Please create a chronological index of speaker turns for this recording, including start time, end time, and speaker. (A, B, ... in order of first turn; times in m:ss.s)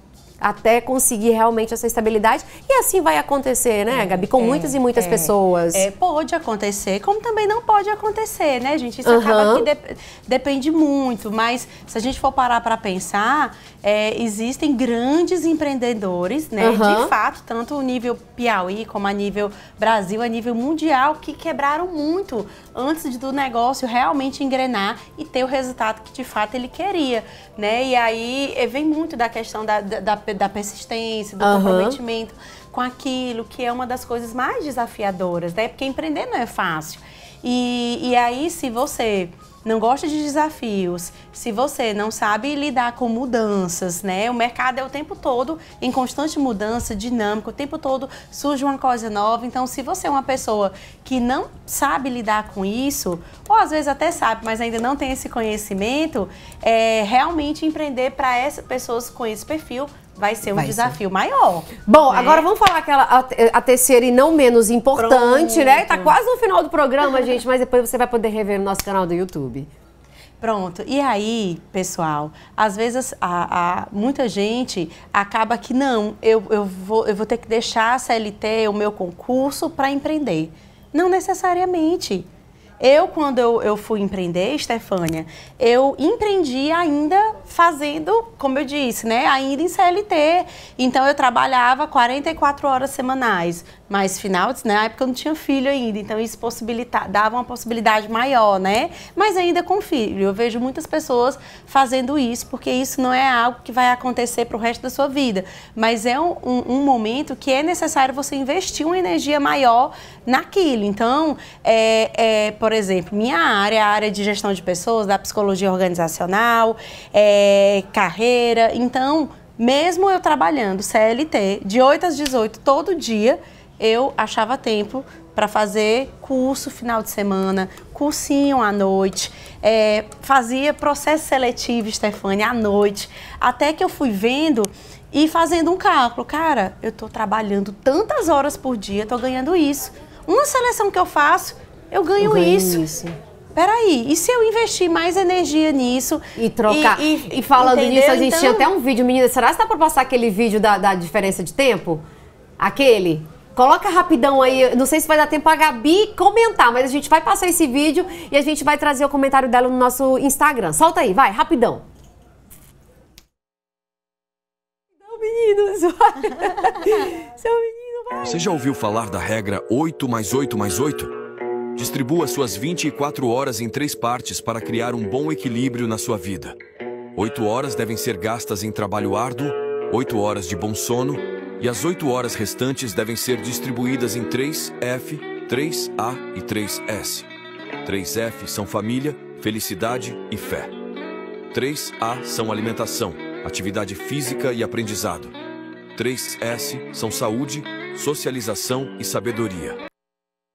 0:00.4-0:05.9 A
0:03.9-1:02.4 B
0:09.0-0:09.6 A
0:16.6-0:17.1 A
0:31.4-0:32.0 A
1:00.6-1:01.0 A
1:01.8-1:09.7 A
1:04.9-1:06.2 B
1:10.4-1:22.3 B
1:22.8-2:22.8 B
2:22.2-2:23.2 A
2:23.5-2:28.7 B
2:26.4-2:32.0 A
2:32.6-2:41.8 A
2:45.0-2:48.4 A
2:48.2-2:51.1 C
2:51.8-2:56.6 C
2:57.1-3:07.3 C
3:07.8-3:10.7 C
3:11.5-3:15.3 C
3:16.0-3:19.8 C